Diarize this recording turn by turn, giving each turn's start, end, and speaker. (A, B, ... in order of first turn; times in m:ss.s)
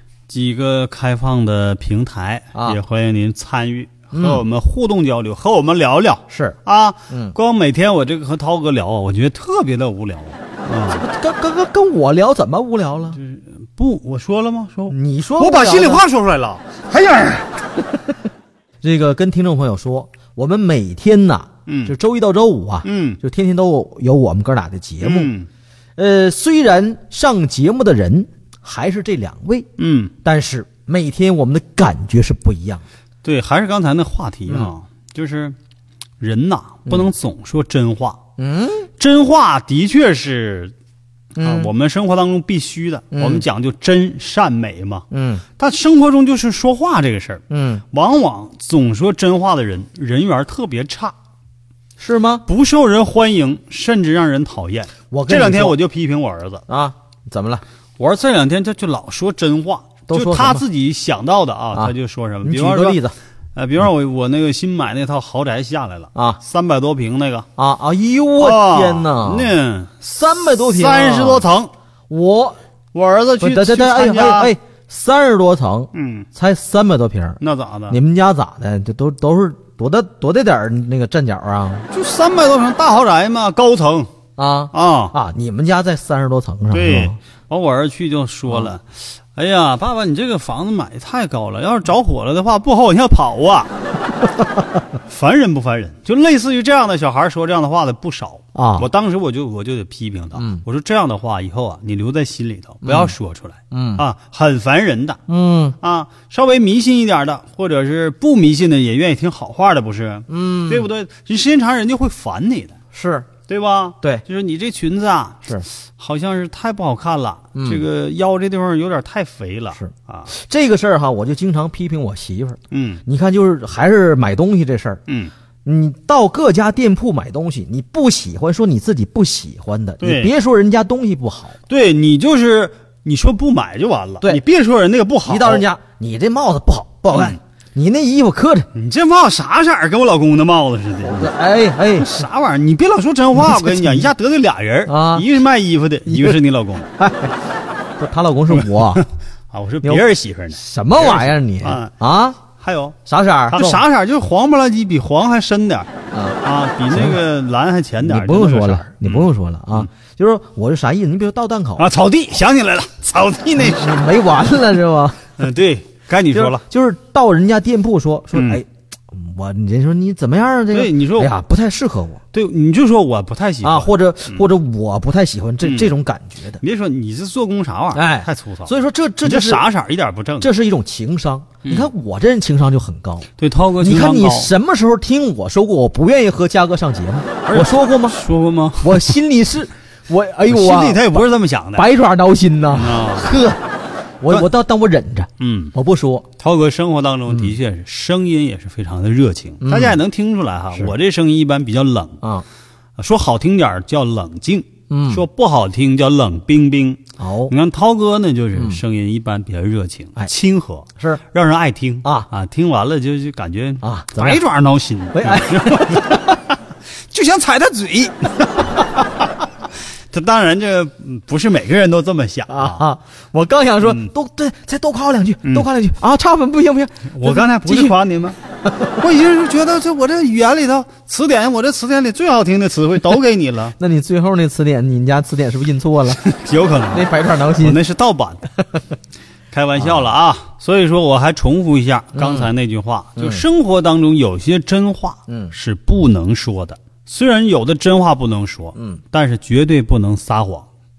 0:00.3-0:11.0 A
0:04.1-0:04.4 B
0:06.3-0:06.6 B
0:07.1-0:07.3 B
0:10.9-0:13.2 B
0:13.1-0:17.4 A
0:14.9-0:16.0 B
0:18.8-0:25.3 B
0:21.7-0:21.9 A
0:22.8-0:23.2 A
0:25.0-0:25.5 A
0:26.0-0:29.7 B
0:29.8-0:30.1 A
0:30.2-0:32.8 B
0:33.2-0:35.6 A
0:36.2-0:38.2 A
0:38.4-0:38.9 B
0:39.0-0:40.7 A
0:41.4-0:41.7 B
0:41.4-0:45.0 A
0:43.1-0:43.4 B
0:45.1-0:45.4 B
0:45.6-0:47.4 A
0:47.5-0:47.8 B
0:47.9-0:51.2 A
0:52.0-0:52.4 B
0:52.5-0:56.6 A
0:55.1-0:55.8 B
0:56.7-0:57.6 B
0:58.0-1:03.0 A
1:00.1-1:00.6 B
1:01.7-1:03.1 B
1:03.5-1:07.5 A
1:07.6-1:09.5 B
1:08.4-1:11.7 A
1:10.1-1:11.4 B
1:12.1-1:12.6 B
1:12.9-1:14.5 A
1:13.4-1:21.9 B
1:15.9-1:16.3 A
1:17.4-1:18.0 A
1:21.9-1:24.1 A
1:24.4-1:27.2 B
1:24.7-1:25.1 A
1:26.7-1:33.7 A
1:35.1-1:45.2 A
1:38.5-1:38.9 B
1:40.3-1:40.6 B
1:42.8-1:43.1 B
1:43.7-1:44.0 B
1:45.3-1:45.7 B
1:45.8-1:52.8 A
1:50.3-1:50.8 B
1:52.9-1:53.3 B
1:53.5-2:00.3 A
1:57.5-1:57.8 B
1:59.7-2:05.0 B
2:02.7-2:03.0 A
2:05.1-2:05.3 A
2:05.6-2:11.6 B
2:10.0-2:10.3 A
2:11.7-2:15.6 A
2:15.2-2:18.7 B
2:17.1-2:17.4 A
2:18.7-2:21.3 A
2:21.0-2:22.1 B
2:22.0-2:26.9 A
2:23.3-2:24.1 B
2:24.9-2:25.2 B
2:26.1-2:26.4 B
2:27.0-2:27.3 B
2:28.0-2:29.0 B
2:28.5-2:31.9 A
2:29.8-2:32.4 B
2:32.4-2:33.0 A
2:33.1-2:33.8 B
2:33.5-2:35.9 A
2:36.1-2:36.4 B
2:36.4-2:39.9 A
2:38.0-2:41.8 B
2:41.8-2:43.8 A
2:43.5-2:45.2 B
2:45.4-2:46.6 A
2:46.3-2:52.2 B
2:48.3-2:48.6 A
2:50.7-2:51.3 A
2:52.3-2:54.4 A
2:53.6-2:56.6 B
2:55.6-2:55.9 A
2:56.6-3:00.5 A
2:57.9-2:59.6 B
3:00.4-3:03.3 B
3:01.6-3:01.9 A
3:03.4-3:04.5 A
3:03.8-3:08.2 B
3:07.5-3:09.2 A
3:08.8-3:11.2 B
3:10.5-3:11.9 A
3:11.8-3:13.6 B
3:12.7-3:13.3 A
3:14.2-3:16.2 B
3:15.4-3:15.7 A
3:16.4-3:22.2 A
3:19.6-3:20.0 B
3:23.0-3:36.2 A
3:24.9-3:25.2 B
3:27.2-3:27.5 B
3:28.5-3:28.8 B
3:33.8-3:34.4 B
3:35.1-3:36.4 B
3:37.1-3:38.6 A
3:40.1-3:42.8 A
3:42.5-3:48.0 B
3:43.8-3:44.1 A
3:47.1-3:48.4 A
3:49.0-3:53.7 A
3:53.8-3:56.2 B
3:56.2-3:58.5 A
3:56.9-3:57.8 B
3:59.5-4:10.7 A
3:59.8-4:00.0 B
4:02.1-4:02.5 B
4:03.2-4:03.4 B
4:05.3-4:05.5 B
4:08.7-4:09.0 B